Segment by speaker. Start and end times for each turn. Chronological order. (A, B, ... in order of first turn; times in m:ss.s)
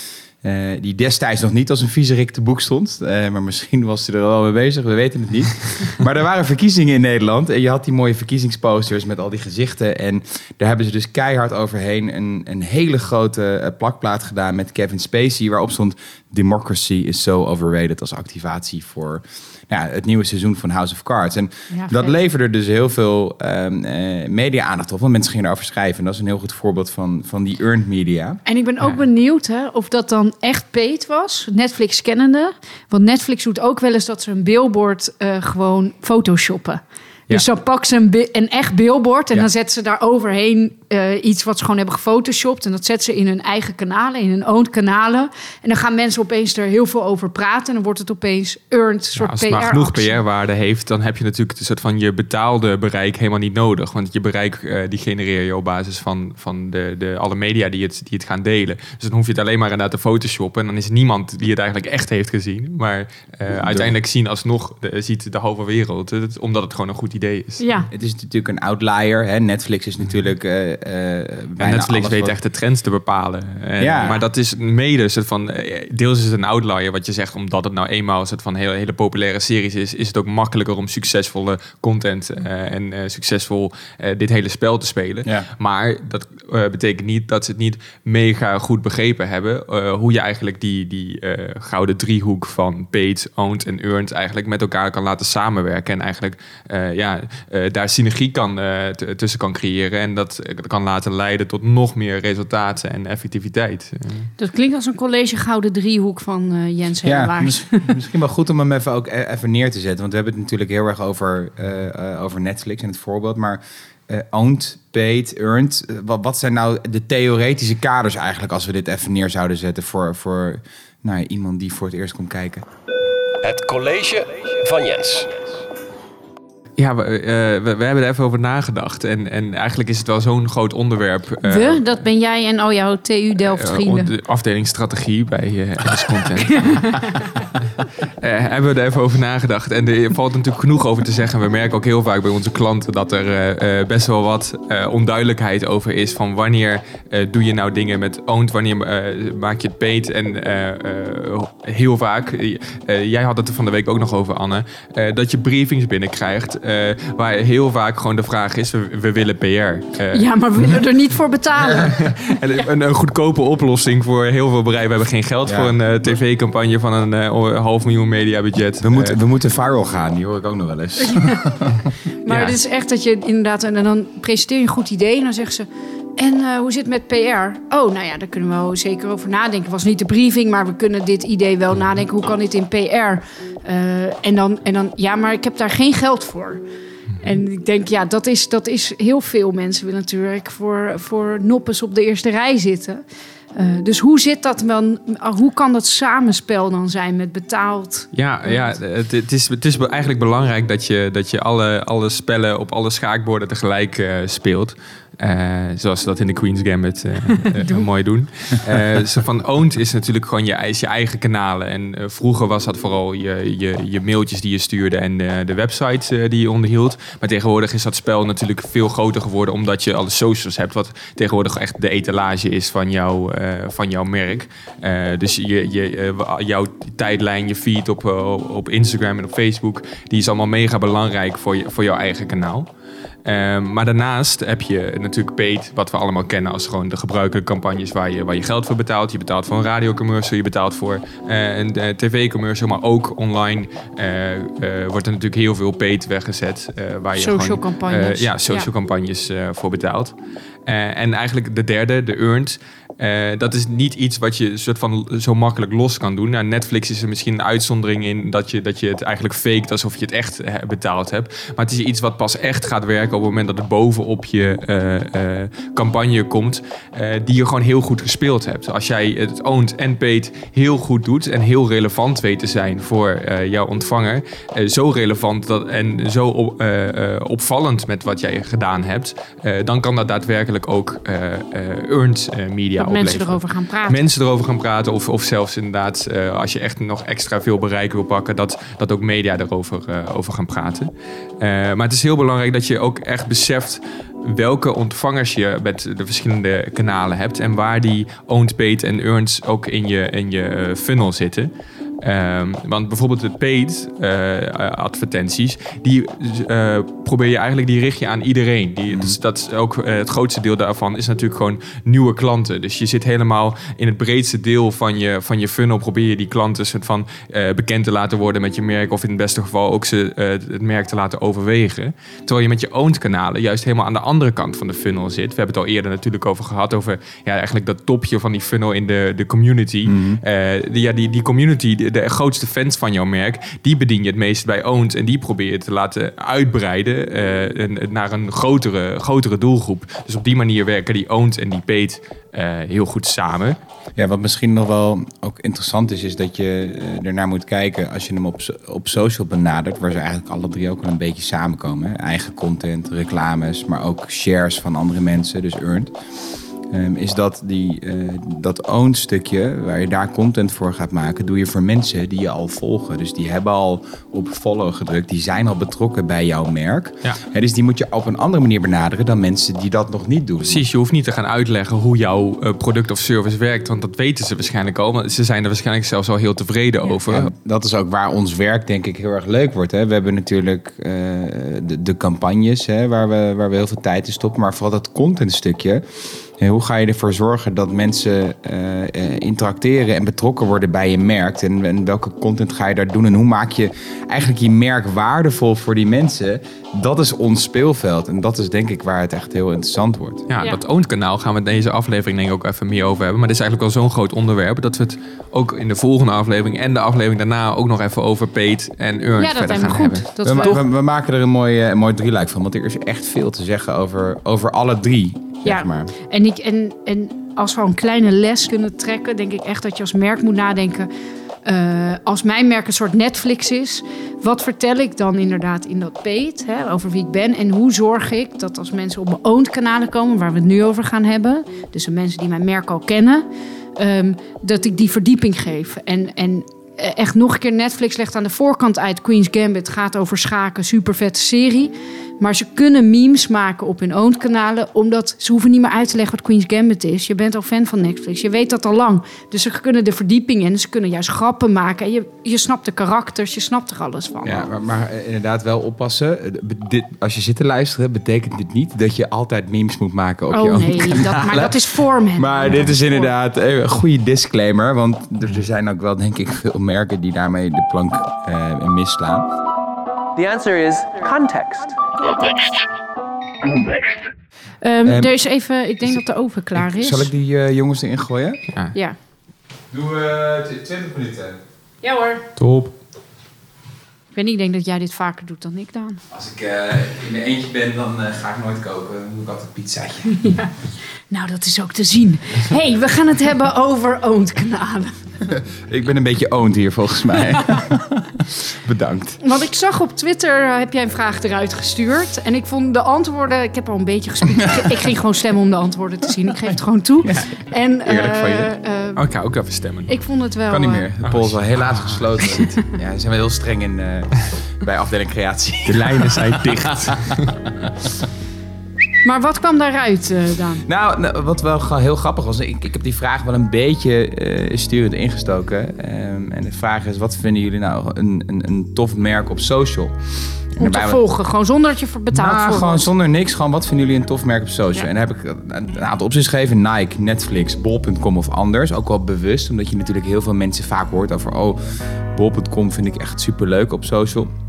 0:00.4-0:28.4 A
0:21.7-0:22.2 B
0:28.4-0:50.2 B
0:49.2-1:07.6 C
1:03.5-1:03.9 A
1:07.6-1:07.9 B
1:07.9-1:12.3 A
1:11.6-1:44.3 C
1:13.8-1:14.2 A
1:44.4-1:47.9 B
1:47.0-2:02.6 A
2:03.4-2:05.4 D
2:06.8-2:11.8 C
2:11.4-2:14.1 B
2:13.4-2:17.3 C
2:16.6-2:17.0 B
2:18.0-2:40.2 C
2:40.1-2:42.4 B
2:41.7-2:49.2 C
2:45.4-2:45.7 A
2:48.8-2:51.8 A
2:51.0-2:51.6 B
2:52.2-3:06.6 B
2:52.3-2:52.6 C
3:07.2-3:13.0 B
3:13.5-3:18.8 B
3:18.1-3:52.7 C
3:27.5-3:27.9 B
3:53.2-4:10.1 C
4:07.1-4:08.7 B
4:10.6-4:50.9 C
4:42.8-4:44.0 B
4:51.4-5:01.5 C
5:02.0-5:43.6 C
5:08.9-5:09.2 A
5:29.8-5:30.2 A
5:44.0-5:55.9 A
5:56.7-6:10.6 A
6:10.5-6:17.3 C
6:17.1-6:25.8 A
6:26.4-6:40.2 A
6:40.3-6:50.6 C
6:49.2-6:50.6 B
6:50.2-6:55.9 A
6:55.4-7:00.9 B
7:01.4-7:34.5 B
7:34.2-7:49.3 A
7:40.3-7:43.1 B
7:50.2-7:52.4 E
7:54.6-7:57.1 B
7:54.8-7:55.1 A
7:56.5-7:58.4 A
7:59.7-8:01.4 A
8:01.8-8:02.2 B
8:02.4-8:02.7 C
8:04.1-8:06.0 B
8:06.1-8:10.3 A
8:10.1-8:10.5 B
8:11.1-8:14.9 B
8:15.2-8:19.2 A
8:19.2-8:29.0 B
8:27.0-8:27.3 A
8:27.8-8:28.3 A
8:27.9-8:29.9 C
8:29.9-8:30.8 B
8:30.5-8:37.2 A
8:31.0-8:32.1 C
8:35.6-8:37.3 C
8:39.0-8:40.6 B
8:40.6-8:49.9 A
8:50.5-8:51.0 A
8:50.6-8:52.9 B
8:52.1-9:01.6 A
9:02.1-9:04.3 A